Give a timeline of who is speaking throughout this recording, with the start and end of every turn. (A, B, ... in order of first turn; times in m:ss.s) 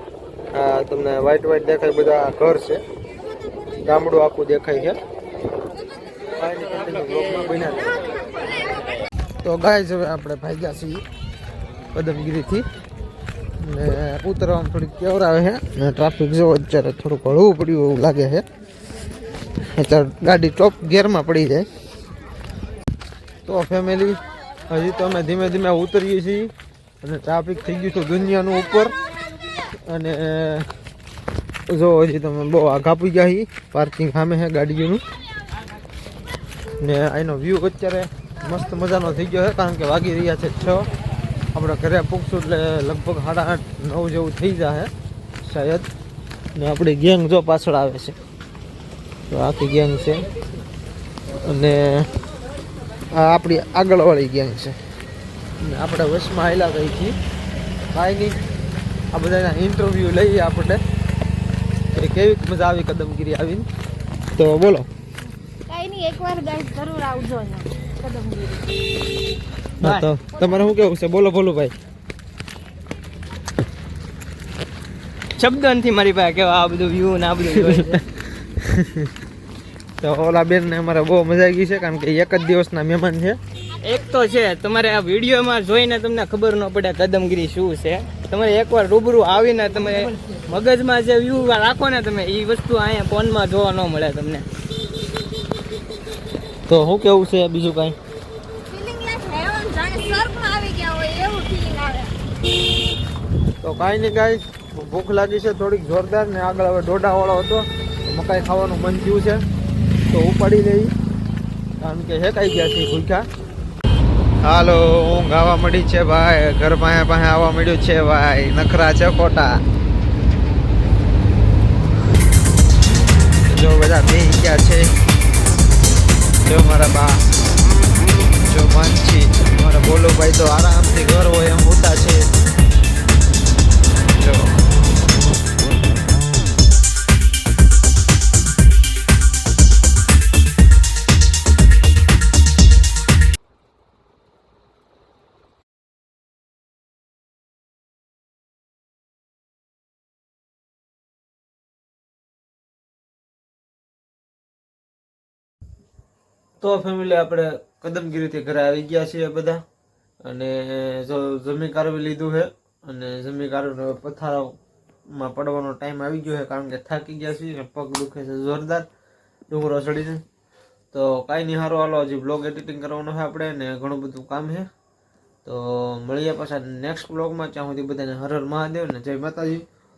0:00.5-0:02.8 A
0:03.8-0:05.0 A
0:06.4-0:08.0 A
0:09.4-0:11.0 A
0:11.9-0:12.6 A
0:13.6-0:18.4 A
0:19.7-0:21.7 A
0:23.4-0:28.9 A
0:29.9-0:30.7 A
0:31.7-0:35.0 A
0:36.8-0:40.9 A
0:41.5-0:44.9 A
0:45.4-0:45.9 A
0:46.5-0:48.2 A
0:49.3-0:50.2 A
0:51.4-0:52.1 A
0:53.1-0:54.8 A
0:55.6-0:57.2 A
0:57.9-0:58.4 A
0:59.1-1:00.8 A
1:01.9-1:03.7 A
1:04.3-1:04.9 A
1:05.7-1:08.7 B
1:09.8-1:10.1 C
1:09.8-1:11.7 A
1:10.3-1:10.6 B
1:15.4-1:18.0 C
1:17.9-1:19.1 A
1:20.0-1:23.4 A
1:23.8-1:34.5 C
1:36.7-1:38.0 A
1:38.7-1:42.1 B
1:43.6-1:49.4 A
1:50.1-1:50.9 A
1:51.8-1:53.2 A
1:54.4-1:59.6 A
2:03.5-2:04.9 A
2:06.4-2:07.2 A
2:08.4-2:12.3 A
2:14.1-2:14.6 A
2:36.6-2:39.6 A
2:40.2-2:44.6 A
2:45.1-2:48.9 A
2:49.5-2:50.2 A
2:50.9-2:54.7 A
2:55.4-2:59.6 A